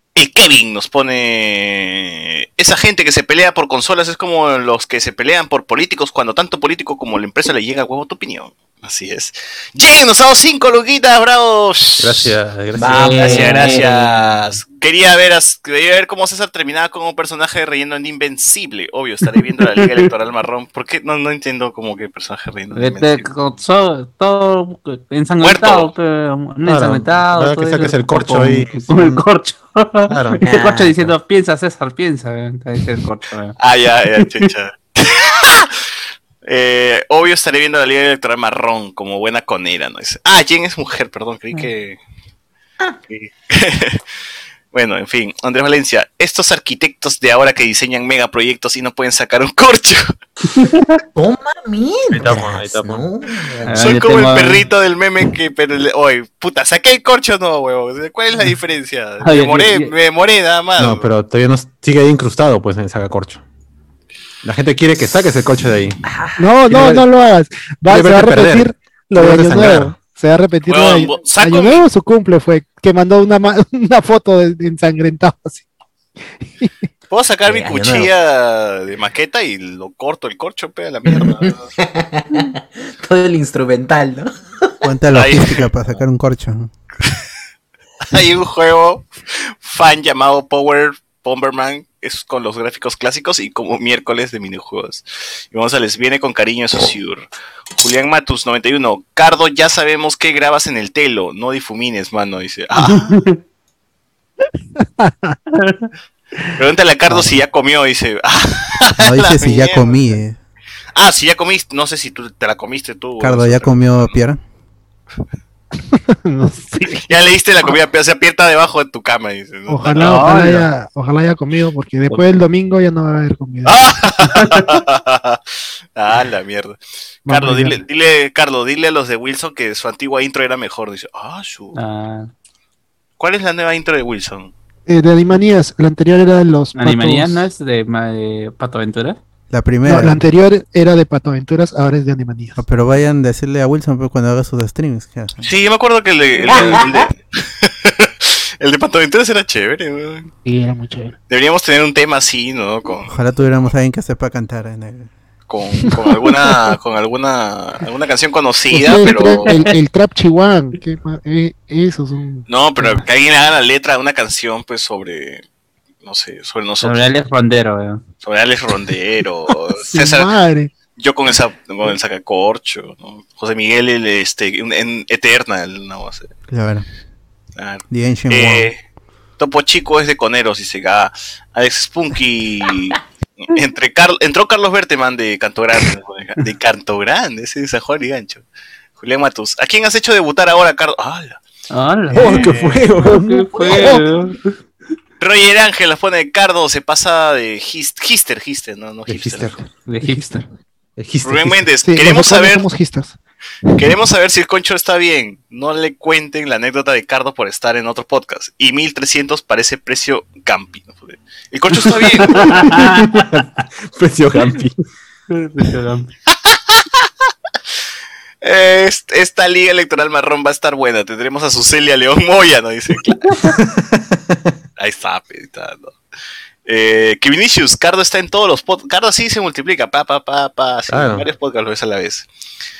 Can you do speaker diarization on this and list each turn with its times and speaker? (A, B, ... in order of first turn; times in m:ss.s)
0:00.1-0:12.3 A
0:12.0-0:13.7 B
0:12.7-0:14.0 C
0:12.9-0:23.2 A
0:13.1-0:13.8 D
0:19.7-0:20.0 D
0:22.7-0:33.6 D
0:25.4-0:25.9 A
0:26.6-0:29.2 B
0:30.1-0:30.4 B
0:30.4-0:31.1 C
0:33.6-0:35.7 A
0:34.2-0:34.5 D
0:36.4-0:42.0 A
0:43.1-0:44.0 A
0:44.7-0:50.0 A
0:50.5-0:51.0 D
0:51.1-0:53.7 C
0:52.2-0:52.4 D
0:52.2-0:53.0 B
0:53.6-0:54.7 D
0:53.8-1:01.0 A
0:59.2-0:59.9 D
1:00.8-1:03.4 B
1:04.4-1:06.0 B
1:06.4-1:15.6 E
1:06.7-1:07.0 B
1:07.9-1:10.0 B
1:10.7-1:11.8 A
1:16.5-1:16.8 E
1:17.1-1:21.7 A
1:17.5-1:18.1 C
1:21.1-1:24.3 C
1:24.8-1:26.7 F
1:25.1-1:25.7 A
1:28.1-1:37.3 A
1:37.8-1:43.2 A
1:42.9-1:43.4 D
1:44.8-1:45.4 E
1:45.5-1:45.9 D
1:46.5-1:50.1 A
1:49.0-1:50.4 F
1:50.9-1:54.1 A
1:53.2-1:54.4 F
1:55.9-1:57.0 E
1:57.0-2:00.4 A
1:59.7-2:03.9 E
2:00.0-2:00.7 D
2:03.6-2:05.4 A
2:04.3-2:04.7 D
2:06.0-2:11.8 A
2:07.2-2:07.8 E
2:11.7-2:12.3 D
2:13.2-2:14.5 A
2:14.9-2:17.5 E
2:16.7-2:19.2 D
2:19.5-2:20.2 F
2:19.8-2:22.6 E
2:22.6-2:25.5 F
2:25.4-2:30.3 A
2:26.5-2:27.1 C
2:26.5-2:26.8 D
2:30.4-2:31.2 E
2:31.3-2:33.2 A
2:33.1-2:35.1 F
2:35.5-2:39.5 A
2:35.9-2:36.3 E
2:38.7-2:43.0 E
2:39.0-2:39.8 D
2:42.5-2:45.4 A
2:46.0-2:47.1 A
2:46.8-2:48.0 D
2:48.2-2:50.3 A
2:49.9-2:50.7 E
2:50.9-2:56.3 A
2:56.5-2:56.8 F
2:57.6-2:58.8 A
2:57.9-2:58.7 F
2:59.4-3:08.4 A
3:09.0-3:11.4 A
3:11.7-3:14.5 D
3:12.1-3:13.2 B
3:12.1-3:12.5 A
3:13.0-3:14.1 E
3:15.2-3:19.5 A
3:19.1-3:19.6 B
3:19.8-3:20.4 D
3:20.0-3:20.4 E
3:21.0-3:21.7 B
3:21.2-3:22.7 A
3:21.8-3:23.2 E
3:23.7-3:32.6 A
3:31.9-3:33.6 D
3:32.5-3:34.7 B
3:35.3-3:36.1 D
3:36.4-3:36.8 A
3:38.4-3:43.4 A
3:43.4-3:44.5 B
3:44.8-3:45.9 A
3:46.6-3:52.2 A
3:50.9-3:51.3 B